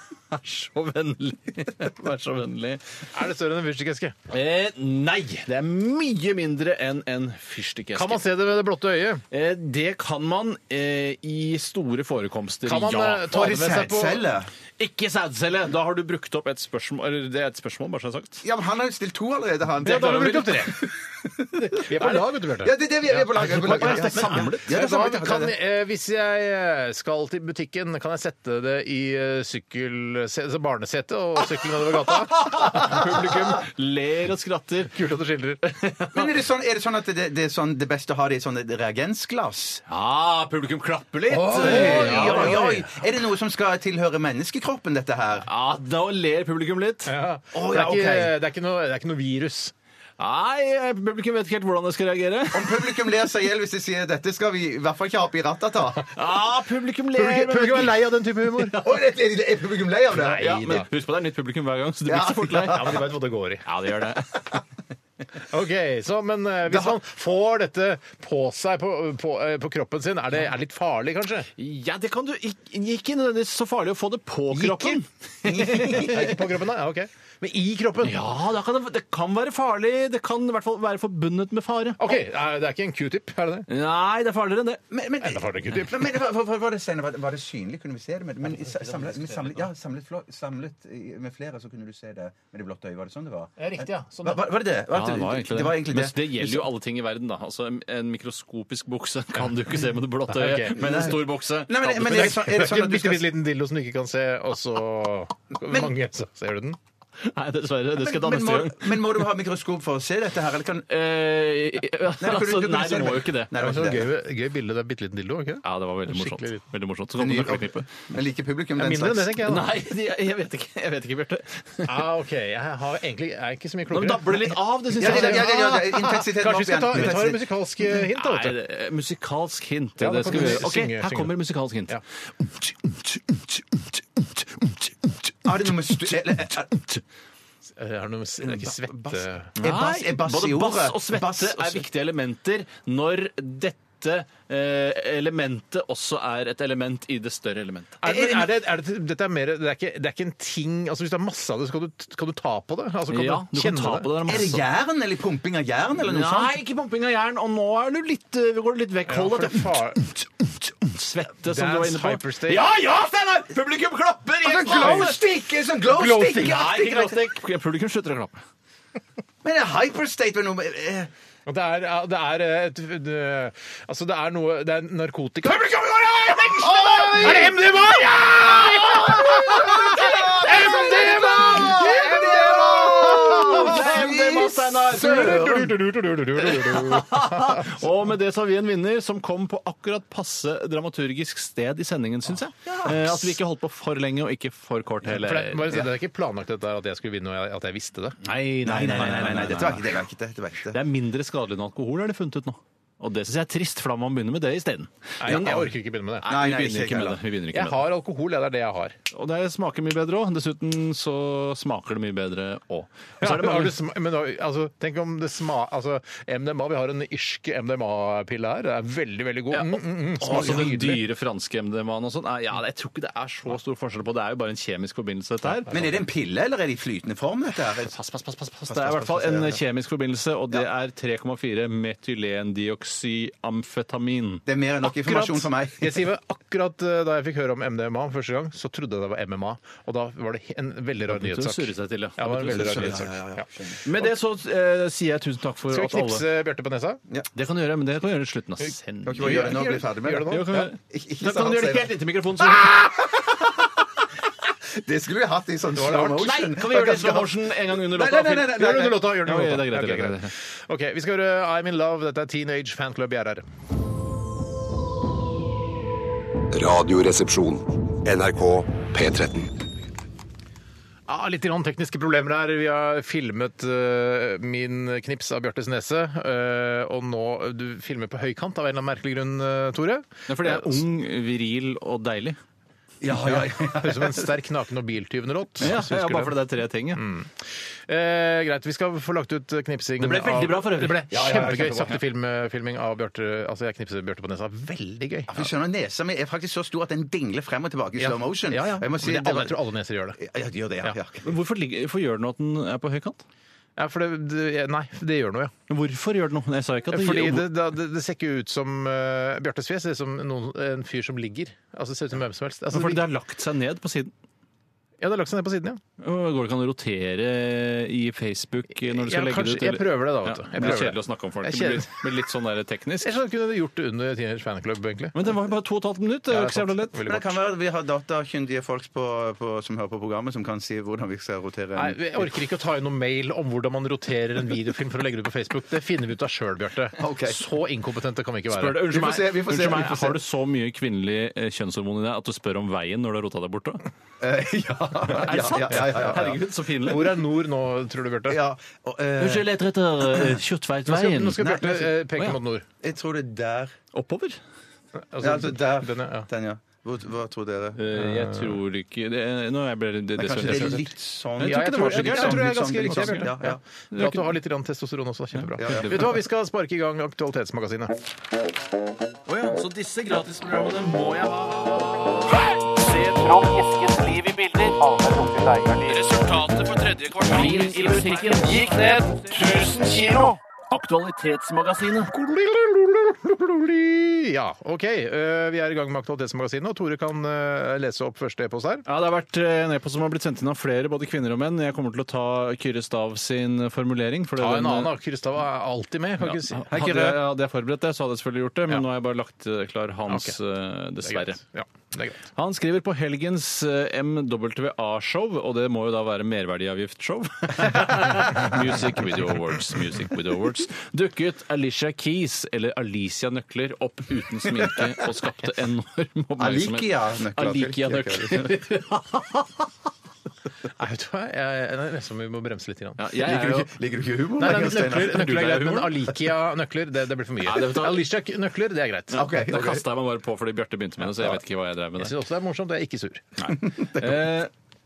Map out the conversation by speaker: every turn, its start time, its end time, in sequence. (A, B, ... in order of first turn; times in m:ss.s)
0:00.3-0:03.0 A
0:03.1-0:04.2 B
0:04.3-0:08.2 A
0:07.9-0:09.2 B
0:09.3-0:13.3 A
0:12.6-0:14.2 B
0:13.3-0:14.5 C
0:14.8-0:18.4 A
0:18.4-0:25.6 C
0:19.8-0:20.8 B
0:21.6-0:33.5 B
0:23.3-0:24.7 A
0:32.1-0:34.9 A
0:34.9-0:35.6 B
0:35.6-0:36.3 A
0:36.1-0:39.8 C
0:39.8-0:42.7 A
0:41.3-0:42.9 B
0:41.5-0:45.5 C
0:45.4-0:47.1 A
0:47.0-0:49.7 B
0:47.5-0:48.3 C
0:50.2-0:52.9 A
0:52.5-0:56.1 C
0:56.1-0:57.9 A
0:57.1-0:58.8 B
0:58.8-1:00.6 C
1:00.1-1:00.9 B
1:00.3-1:02.8 A
1:02.0-1:03.0 C
1:02.7-1:03.6 B
1:03.6-1:04.6 A
1:05.5-1:11.5 B
1:06.7-1:07.0 C
1:11.6-1:16.3 A
1:14.5-1:15.0 B
1:15.4-1:16.3 C
1:15.6-1:18.2 B
1:18.0-1:22.1 A
1:22.0-1:23.7 B
1:23.7-1:24.8 A
1:24.9-1:36.6 C
1:25.2-1:26.1 B
1:28.6-1:29.7 A
1:33.6-1:34.4 B
1:34.9-1:42.3 A
1:40.3-1:41.1 B
1:40.8-1:43.3 C
1:41.9-1:46.8 B
1:47.2-1:49.0 A
1:47.9-1:50.9 C
1:50.9-1:53.5 A
1:52.2-1:54.1 C
1:53.5-1:56.6 B
1:55.6-1:57.9 A
1:57.2-1:59.3 C
1:58.8-1:59.7 B
1:59.4-2:02.0 A
2:01.8-2:08.6 B
2:03.9-2:05.5 A
2:05.0-2:07.4 C
2:08.1-2:15.3 A
2:10.0-2:11.3 B
2:15.4-2:16.8 C
2:17.8-2:19.5 B
2:18.4-2:21.9 C
2:19.6-2:28.0 A
2:28.0-2:34.1 B
2:28.0-2:28.6 C
2:33.1-2:34.6 A
2:34.2-2:36.6 C
2:36.0-2:45.2 A
2:39.1-2:40.0 B
2:41.4-2:42.7 B
2:44.4-2:47.2 C
2:44.7-2:45.2 B
2:45.9-2:48.4 A
2:49.4-2:51.1 C
2:51.4-2:55.8 B
2:55.5-2:57.5 C
2:56.6-3:03.9 B
2:56.6-2:57.4 A
2:59.1-3:05.8 C
2:59.9-3:15.8 A
3:04.9-3:07.8 B
3:15.0-3:18.2 B
3:18.2-3:19.8 A
3:18.6-3:20.8 C
3:18.9-3:19.4 B
3:20.7-3:25.7 A
3:25.2-3:26.3 B
3:25.3-3:25.7 C
3:26.2-3:27.8 A
3:26.2-3:27.2 C
3:27.5-3:29.0 B
3:29.1-3:33.8 A
3:33.2-3:41.0 B
3:39.5-3:45.7 A
3:45.7-3:45.9 B
3:45.7-3:47.9 C
3:47.9-3:54.4 A
3:48.7-3:49.6 C
3:54.4-3:56.0 C
3:55.0-3:55.4 A
3:55.8-4:03.4 B
4:01.1-4:03.0 A
4:02.5-4:03.8 C
4:03.8-4:06.2 A
4:05.7-4:07.0 B
4:07.3-4:09.6 A
4:09.0-4:11.9 C
4:09.2-4:10.7 B
4:10.3-4:12.9 A
4:14.8-4:19.1 C
4:15.7-4:16.3 B
4:16.1-4:20.3 A
4:18.5-4:23.4 B
4:26.5-4:29.5 D
4:31.1-4:40.8 B
4:40.3-4:42.4 A
4:43.0-4:44.3 C
4:43.1-4:46.4 B
4:45.6-4:47.0 A
4:46.9-4:55.5 B
4:50.0-4:51.1 A
4:51.1-4:52.0 C
4:55.3-4:59.6 C
4:58.0-5:00.2 B
5:00.2-5:01.3 C
5:01.2-5:03.2 A
5:03.8-5:05.5 B
5:05.7-5:07.5 A
5:06.9-5:13.0 B
5:12.7-5:14.1 A
5:15.0-5:15.8 B
5:16.0-5:23.1 A
5:18.8-5:22.1 B
5:23.0-5:25.3 B
5:25.1-5:27.0 A
5:26.3-5:27.3 B
5:27.0-5:32.3 C
5:31.7-5:38.9 B
5:37.0-5:37.4 C
5:38.5-5:43.9 A
5:38.9-5:40.2 C
5:44.2-5:46.4 C
5:45.1-5:47.1 A
5:46.8-5:48.4 B
5:48.3-5:49.5 C
5:49.2-5:52.4 A
5:50.8-5:52.6 B
5:52.8-5:53.7 C
5:53.9-5:54.4 A
5:55.1-5:56.3 B
5:55.2-5:57.8 C
5:57.8-6:00.8 A
5:57.9-5:58.6 B
6:00.2-6:03.6 C
6:00.4-6:00.8 B
6:01.4-6:03.3 A
6:01.4-6:08.0 B
6:03.9-6:04.3 A
6:05.4-6:05.9 A
6:05.6-6:06.0 C
6:09.3-6:14.8 A
6:14.9-6:15.8 B
6:15.8-6:22.1 A
6:22.1-6:28.8 B
6:28.8-6:34.9 A
6:34.4-6:37.2 B
6:36.2-6:41.4 A
6:40.1-6:40.4 B
6:41.0-6:42.2 B
6:42.3-6:59.7 A
6:56.4-6:58.6 C
7:00.8-7:03.0 B
7:03.0-7:03.7 A
7:03.2-7:05.3 C
7:04.4-7:09.3 B
7:04.8-7:05.9 A
7:07.4-7:08.0 A
7:09.1-7:09.8 C
7:09.1-7:12.1 A
7:12.0-7:13.3 B
7:13.4-7:14.5 A